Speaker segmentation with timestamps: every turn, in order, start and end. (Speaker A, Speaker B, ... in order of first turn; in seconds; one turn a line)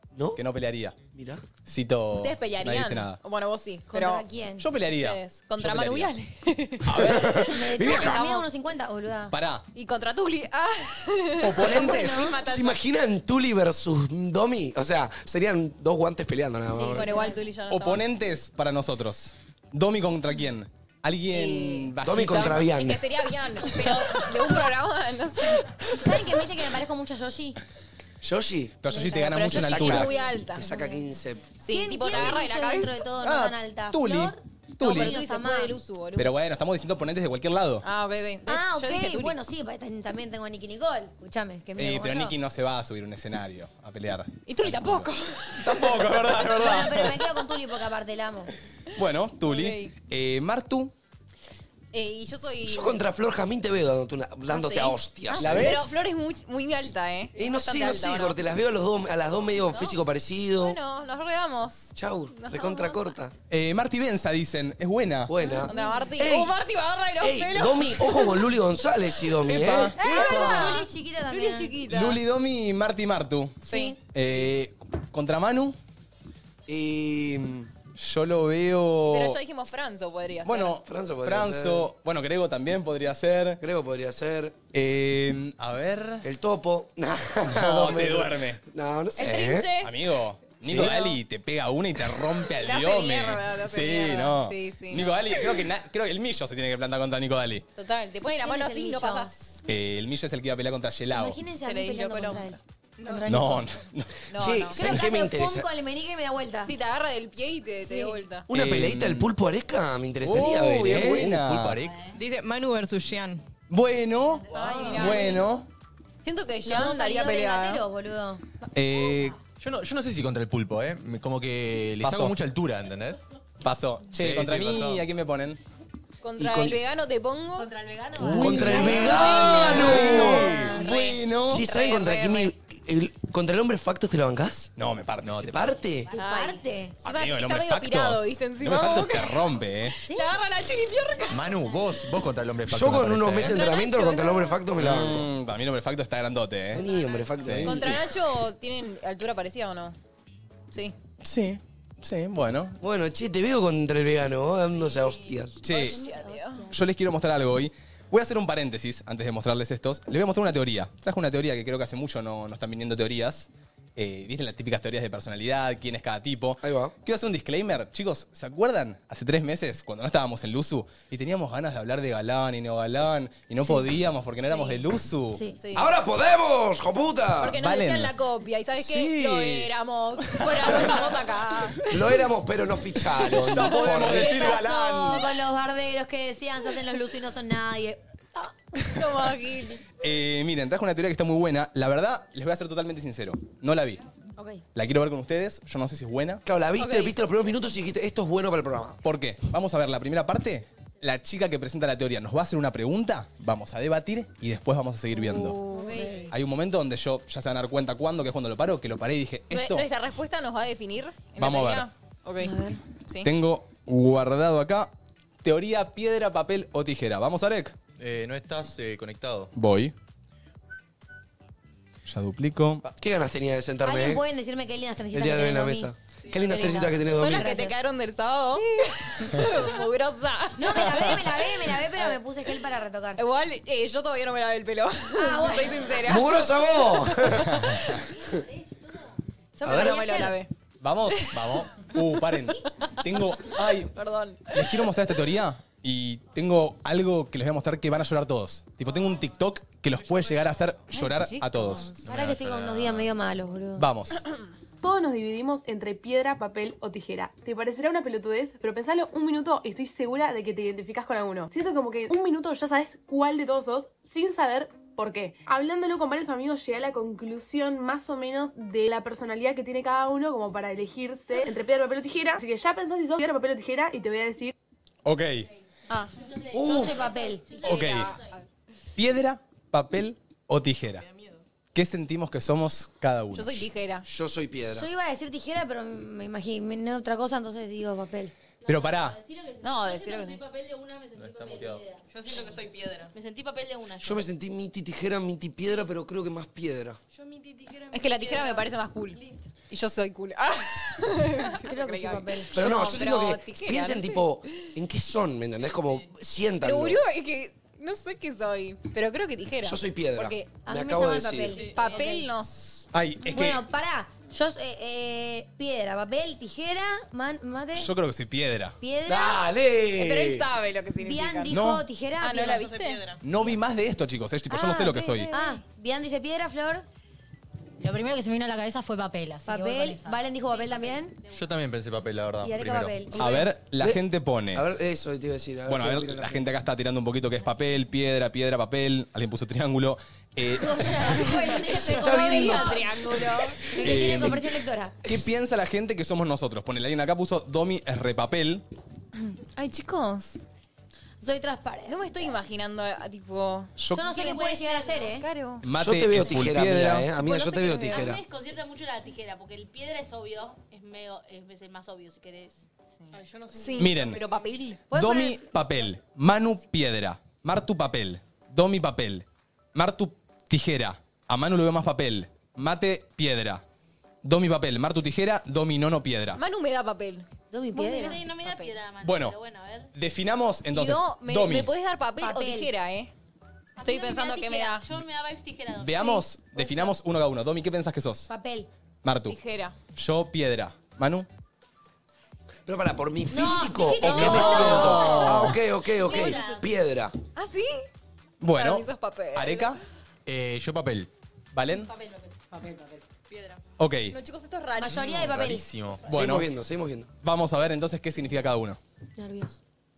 Speaker A: 0.1-0.4
Speaker B: 0.4-0.9
Speaker A: 1.1-1.4
Speaker B: 1.6-3.2
Speaker C: 2.1-4.2
Speaker D: 3.9-4.7
Speaker B: 4.6-6.1
Speaker C: 5.0-8.4
Speaker B: 6.9-7.3
Speaker A: 6.9-8.2
Speaker D: 7.4-9.4
Speaker B: 9.3-9.7
Speaker C: 9.7-12.8
Speaker B: 11.4-12.3
Speaker D: 11.6-12.4
Speaker A: 12.4-17.1
Speaker D: 16.7-17.4
Speaker C: 16.7-18.0
Speaker B: 17.7-22.7
Speaker C: 21.3-26.3
Speaker A: 22.0-23.0
Speaker D: 25.9-27.6
Speaker A: 28.2-28.8
Speaker B: 28.8-30.1
Speaker D: 28.9-29.4
Speaker C: 29.1-30.7
Speaker A: 29.5-31.5
Speaker D: 30.6-30.9
Speaker C: 31.6-33.0
Speaker D: 31.7-35.8
Speaker B: 33.2-35.2
Speaker C: 34.8-36.3
Speaker B: 36.2-37.9
Speaker C: 37.8-39.4
Speaker D: 38.5-42.4
Speaker B: 41.8-47.2
Speaker C: 44.5-46.3
Speaker D: 46.5-48.5
Speaker B: 49.0-50.9
Speaker C: 49.5-49.9
Speaker C: 51.9-53.0
Speaker A: 52.7-55.8
Speaker C: 54.5-58.4
Speaker B: 55.4-55.9
Speaker A: 57.4-60.8
Speaker C: 59.7-60.0
Speaker C: 60.6-63.0
Speaker A: 62.0-63.4
Speaker B: 63.5-65.3
Speaker A: 65.3-66.6
Speaker C: 65.6-68.5
Speaker A: 67.2-70.0
Speaker B: 69.4-70.8
Speaker D: 70.0-71.7
Speaker C: 70.0-72.2
Speaker B: 71.9-75.8
Speaker C: 73.6-74.0
Speaker D: 73.7-74.0
Speaker A: 76.7-77.7
Speaker B: 78.0-79.4
Speaker C: 79.1-80.8
Speaker B: 80.5-83.6
Speaker A: 80.9-81.9
Speaker A: 83.6-84.6
Speaker B: 84.7-86.3
Speaker A: 86.2-89.7
Speaker B: 87.5-88.6
Speaker C: 89.2-89.9
Speaker B: 89.8-97.6
Speaker A: 90.6-91.1
Speaker C: 92.6-95.4
Speaker C: 97.8-99.6
Speaker D: 98.4-99.3
Speaker B: 99.7-101.4
Speaker D: 101.1-103.7
Speaker C: 101.6-103.3
Speaker B: 103.3-104.2
Speaker C: 104.3-105.0
Speaker A: 104.3-105.7
Speaker D: 104.7-106.7
Speaker C: 106.6-108.5
Speaker D: 107.8-108.2
Speaker A: 108.5-111.4
Speaker B: 108.5-109.3
Speaker B: 110.2-111.8
Speaker E: 111.0-112.0
Speaker F: 112.1-113.4
Speaker B: 113.7-115.7
Speaker C: 114.5-115.4
Speaker D: 114.5-115.4
Speaker C: 116.2-117.8
Speaker D: 116.6-118.5
Speaker B: 118.7-119.4
Speaker E: 119.6-123.2
Speaker B: 122.0-122.4
Speaker B: 123.6-125.6
Speaker E: 124.2-125.0
Speaker C: 126.2-127.7
Speaker A: 126.4-126.8
Speaker G: 127.6-129.8
Speaker A: 128.2-130.6
Speaker B: 128.3-131.7
Speaker C: 128.5-132.5
Speaker G: 130.6-130.9
Speaker A: 131.5-134.7
Speaker B: 134.8-135.4
Speaker E: 135.2-135.6
Speaker A: 135.4-136.1
Speaker D: 136.1-137.0
Speaker C: 136.2-141.5
Speaker B: 137.0-140.0
Speaker D: 139.9-140.3
Speaker E: 141.3-143.6
Speaker A: 142.7-145.3
Speaker C: 143.4-144.6
Speaker B: 144.8-146.8
Speaker G: 146.7-147.6
Speaker A: 146.7-148.1
Speaker B: 147.4-147.8
Speaker C: 147.6-150.0
Speaker B: 151.2-152.8
Speaker A: 152.8-155.6
Speaker G: 154.7-155.4
Speaker B: 155.6-156.0
Speaker C: 155.7-156.7
Speaker D: 155.7-156.7
Speaker B: 156.7-175.4
Speaker A: 166.6-166.9
Speaker C: 174.5-174.8
Speaker C: 175.6-175.9
Speaker A: 175.7-177.6
Speaker C: 177.4-181.9
Speaker B: 177.6-178.1
Speaker B: 178.8-179.7
Speaker B: 180.2-181.0
Speaker A: 181.9-184.4
Speaker C: 183.2-184.6
Speaker B: 183.3-185.3
Speaker D: 184.1-188.5
Speaker C: 188.8-189.8
Speaker B: 190.0-194.0
Speaker D: 194.4-194.6
Speaker B: 194.7-196.4
Speaker A: 196.4-199.0
Speaker C: 196.8-197.2
Speaker B: 199.0-205.6
Speaker C: 205.1-206.3
Speaker D: 205.7-206.3
Speaker B: 206.3-209.9
Speaker C: 209.5-212.6
Speaker B: 211.4-211.9
Speaker D: 212.4-212.8
Speaker B: 213.2-214.9
Speaker B: 215.4-217.7
Speaker E: 218.0-219.5
Speaker B: 219.6-219.9
Speaker B: 222.1-222.8
Speaker A: 223.0-224.2
Speaker D: 223.8-227.8
Speaker A: 225.1-227.6
Speaker C: 227.1-232.2
Speaker D: 230.6-233.2
Speaker C: 233.2-238.1
Speaker D: 235.1-236.0
Speaker A: 236.0-237.7
Speaker D: 239.6-240.4
Speaker C: 239.6-240.5
Speaker B: 240.8-243.9
Speaker C: 241.1-242.0
Speaker E: 241.3-241.8
Speaker C: 242.6-244.9
Speaker B: 244.5-252.0
Speaker C: 250.9-252.1
Speaker D: 252.0-253.9
Speaker E: 252.1-253.1
Speaker B: 253.8-254.2
Speaker H: 254.8-274.5
Speaker B: 275.1-275.5
Speaker G: 276.1-278.4
Speaker A: 276.5-277.1
Speaker D: 276.6-277.6
Speaker C: 277.5-278.4
Speaker B: 277.6-278.1
Speaker B: 278.9-281.1
Speaker B: 281.7-283.7
Speaker C: 283.3-284.1
Speaker A: 284.1-284.9
Speaker D: 284.7-288.3
Speaker G: 288.6-294.3
Speaker B: 288.7-289.2
Speaker C: 289.6-290.4
Speaker E: 291.2-291.8
Speaker F: 292.1-293.1
Speaker A: 294.0-297.0
Speaker G: 297.2-298.6
Speaker C: 297.9-304.4
Speaker F: 298.2-298.5
Speaker D: 301.5-302.6
Speaker A: 302.5-307.0
Speaker C: 306.6-310.6
Speaker A: 309.6-311.6
Speaker D: 310.6-312.0
Speaker G: 311.6-312.2
Speaker C: 311.6-312.9
Speaker B: 312.9-313.6
Speaker D: 313.3-317.9
Speaker B: 317.7-318.8
Speaker D: 318.8-319.4
Speaker A: 319.1-320.4
Speaker C: 320.0-321.5
Speaker D: 321.0-322.8
Speaker B: 321.5-321.9
Speaker C: 322.2-323.1
Speaker B: 323.2-325.3
Speaker D: 324.5-326.9
Speaker I: 327.8-330.2
Speaker D: 329.4-331.2
Speaker G: 330.4-331.6
Speaker E: 331.3-332.9
Speaker D: 332.4-333.4
Speaker B: 333.1-334.7
Speaker A: 334.5-336.5
Speaker B: 335.7-342.9
Speaker D: 340.6-345.0
Speaker C: 341.5-344.1
Speaker A: 342.3-342.6
Speaker B: 343.7-344.5
Speaker A: 343.8-344.3
Speaker B: 345.1-348.6
Speaker C: 349.2-350.4
Speaker D: 351.2-352.3
Speaker C: 351.9-355.6
Speaker B: 353.8-354.2
Speaker D: 353.9-355.2
Speaker G: 354.1-355.0
Speaker B: 355.6-357.1
Speaker A: 355.8-358.2
Speaker C: 357.0-358.2
Speaker G: 357.9-364.5
Speaker C: 363.5-364.8
Speaker B: 363.8-364.2
Speaker D: 364.9-365.5
Speaker B: 364.9-373.6
Speaker B: 374.2-376.4
Speaker C: 376.4-378.3
Speaker D: 377.5-378.7
Speaker G: 377.8-379.9
Speaker B: 379.0-379.4
Speaker B: 379.9-381.7
Speaker C: 380.7-383.1
Speaker D: 382.2-382.7
Speaker G: 383.8-387.0
Speaker C: 383.8-384.9
Speaker B: 385.8-388.3
Speaker D: 388.3-388.7
Speaker B: 389.0-389.4
Speaker C: 389.3-389.7
Speaker B: 389.9-391.3
Speaker A: 392.7-397.1
Speaker D: 393.3-395.4
Speaker C: 394.0-395.6
Speaker B: 394.1-395.5
Speaker G: 394.5-395.1
Speaker G: 395.7-396.7
Speaker C: 396.1-396.5
Speaker C: 397.4-397.9
Speaker B: 398.4-399.8
Speaker C: 398.5-399.8
Speaker E: 400.3-401.1
Speaker B: 401.5-401.9
Speaker G: 401.7-402.4
Speaker F: 403.3-403.6
Speaker B: 403.8-404.1
Speaker C: 404.1-405.2
Speaker D: 404.8-405.7
Speaker E: 404.9-406.1
Speaker B: 406.1-406.5
Speaker A: 406.1-407.1
Speaker B: 407.2-408.8
Speaker D: 409.2-409.6